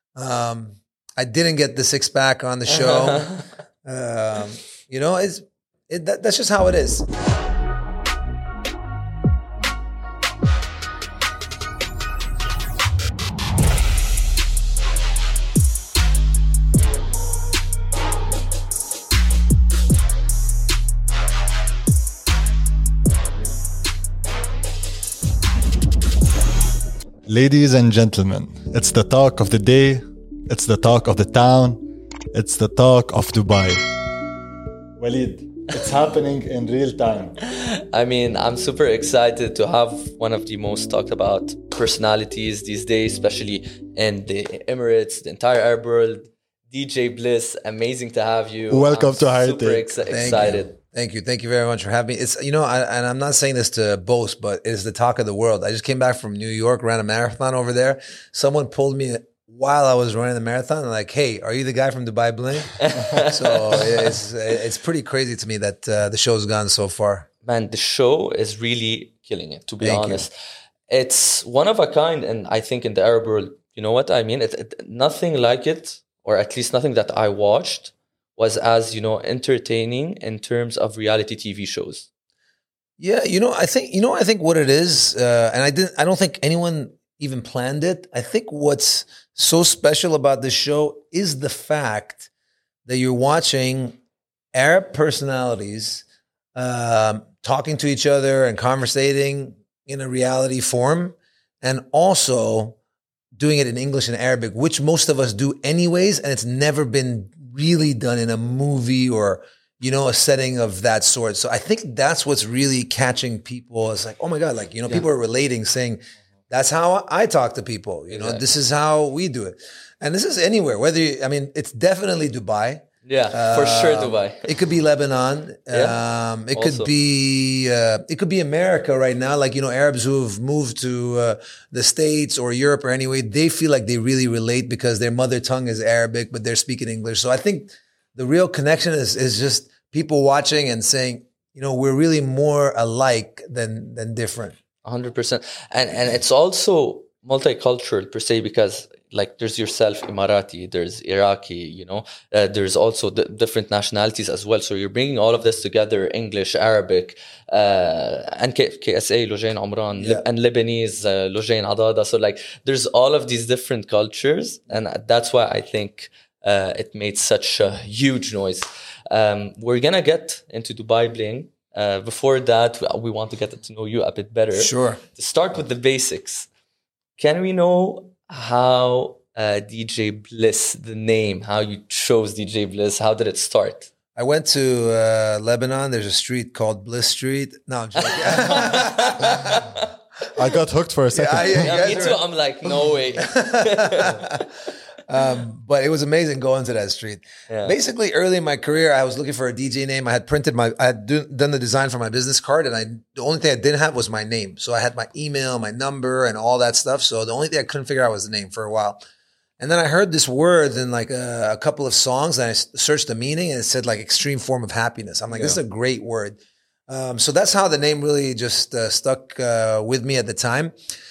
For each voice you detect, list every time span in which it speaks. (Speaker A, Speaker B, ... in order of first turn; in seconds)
Speaker A: 0.1-3.3, 3.8-7.1, 50.1-67.3, 69.8-70.2, 83.0-92.3, 92.8-94.0, 94.5-102.8, 103.3-144.6, 160.0-160.2, 174.5-175.0, 184.1-189.6, 191.1-194.5, 195.1-209.0, 209.6-220.7
Speaker B: 2.7-3.4, 37.5-50.7, 62.8-64.1, 67.4-70.3, 70.9-82.1, 118.1-118.4, 123.0-124.5, 125.7-126.0, 126.5-126.9, 144.8-176.5, 177.2-183.9, 188.1-189.9, 191.5-194.4, 197.5-197.7, 215.3-215.6
Speaker C: 27.2-33.8, 35.0-37.4, 48.7-50.6, 190.3-192.1